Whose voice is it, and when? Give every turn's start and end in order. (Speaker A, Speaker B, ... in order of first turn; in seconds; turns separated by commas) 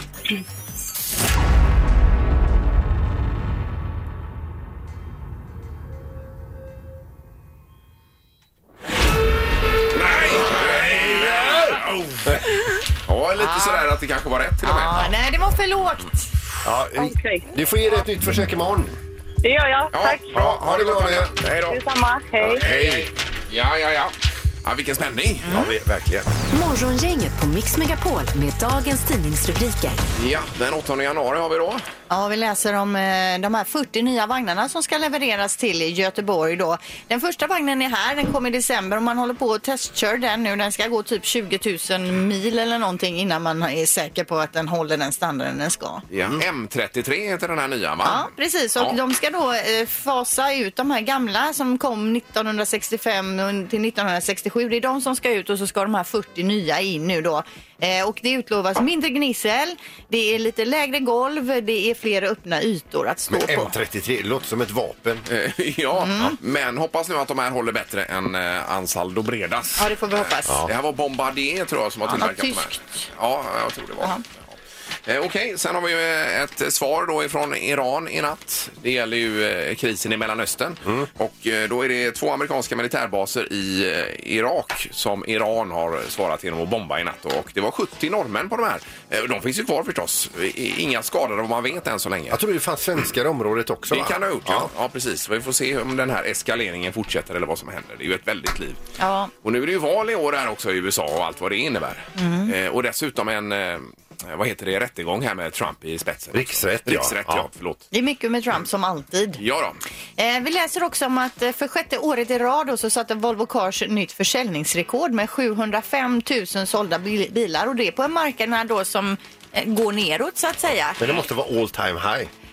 Speaker A: 9.9-12.4, Speaker A: 13.1-15.1, Speaker B: 13.4-13.9, Speaker B: 14.6-16.3, Speaker C: 16.6-19.0, Speaker D: 16.9-17.4, Speaker D: 19.4-20.3, Speaker A: 19.9-21.8, Speaker C: 20.3-21.4, Speaker D: 21.7-22.6, Speaker C: 22.5-23.1, Speaker A: 22.6-25.7, Speaker C: 25.5-26.3, Speaker E: 26.5-30.0, Speaker A: 30.1-31.8, Speaker B: 32.1-46.0, Speaker A: 46.1-49.0, Speaker B: 48.0-63.7, Speaker C: 63.3-65.2, Speaker A: 65.3-74.3, Speaker B: 66.0-66.4, Speaker B: 69.8-70.6, Speaker B: 72.1-73.0, Speaker A: 75.1-92.4, Speaker C: 92.3-94.7, Speaker A: 93.9-98.8, Speaker B: 99.0-99.3, Speaker A: 99.4-107.9, Speaker B: 102.2-102.5, Speaker C: 106.3-107.5, Speaker B: 107.9-109.4, Speaker A: 109.4-109.8, Speaker B: 110.2-121.1, Speaker C: 121.0-122.3